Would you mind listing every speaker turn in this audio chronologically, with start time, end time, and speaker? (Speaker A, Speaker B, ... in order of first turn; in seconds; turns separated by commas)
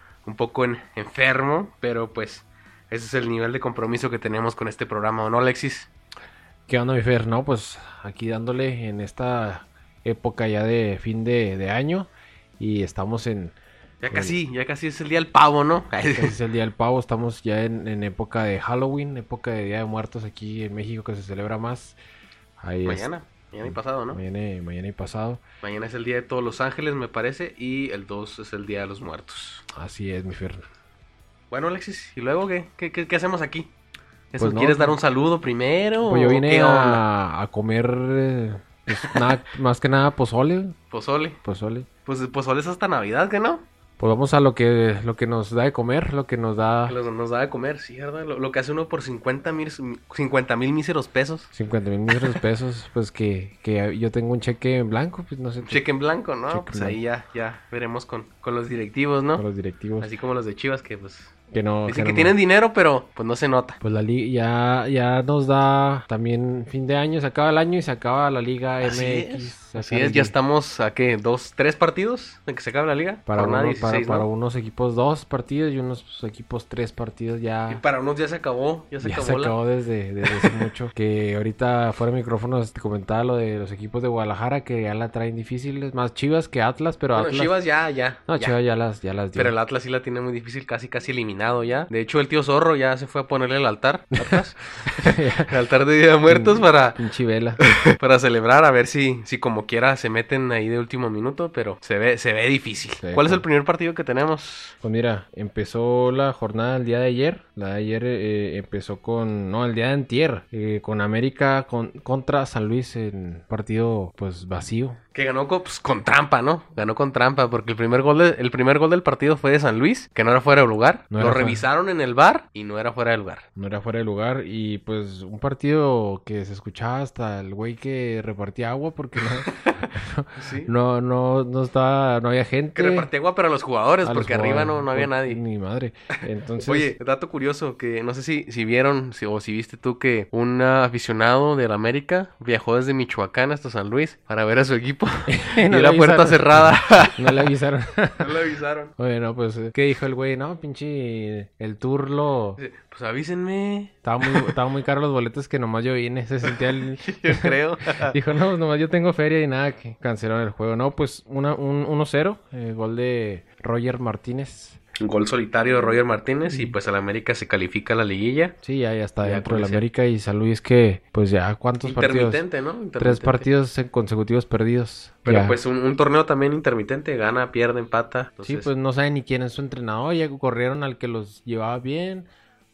Speaker A: 0.2-5.9, Speaker B: 6.7-13.6, Speaker A: 14.0-16.4, Speaker B: 14.1-14.4, Speaker B: 16.2-22.0, Speaker B: 22.6-23.1, Speaker A: 22.8-24.2, Speaker B: 23.6-25.4, Speaker A: 25.6-29.6, Speaker B: 29.7-30.6, Speaker A: 31.5-33.7, Speaker A: 34.3-37.0, Speaker B: 34.4-35.0, Speaker B: 36.0-40.8, Speaker A: 40.9-41.4, Speaker B: 41.4-41.9, Speaker A: 42.1-43.6, Speaker B: 44.0-47.0, Speaker A: 46.9-51.5, Speaker B: 51.5-55.8, Speaker A: 52.1-52.4, Speaker A: 55.7-59.4, Speaker B: 56.5-57.0, Speaker B: 59.4-60.1, Speaker A: 60.0-61.3, Speaker B: 61.5-62.4, Speaker A: 61.9-63.8, Speaker B: 63.8-70.3, Speaker A: 68.8-74.3, Speaker B: 73.3-77.8, Speaker A: 77.7-79.6, Speaker B: 79.0-87.5, Speaker A: 80.2-80.7, Speaker A: 87.2-88.6, Speaker B: 88.3-89.5, Speaker A: 89.3-97.0, Speaker B: 94.2-95.5, Speaker B: 96.3-97.8, Speaker A: 97.6-104.8, Speaker B: 103.0-103.5, Speaker B: 104.8-115.0, Speaker A: 115.1-123.5, Speaker B: 121.1-121.7, Speaker B: 123.6-133.1, Speaker A: 129.4-130.7, Speaker A: 132.8-135.4, Speaker B: 134.0-136.9, Speaker A: 136.6-147.5, Speaker B: 145.3-148.4, Speaker A: 148.2-148.9, Speaker B: 149.0-152.6, Speaker A: 152.6-154.6, Speaker B: 154.0-164.8, Speaker A: 157.0-158.2, Speaker A: 165.0-168.6, Speaker B: 166.5-166.8, Speaker B: 168.6-172.4, Speaker A: 169.2-169.8, Speaker A: 171.8-173.5, Speaker B: 173.0-175.6, Speaker A: 175.2-178.7, Speaker B: 178.4-182.3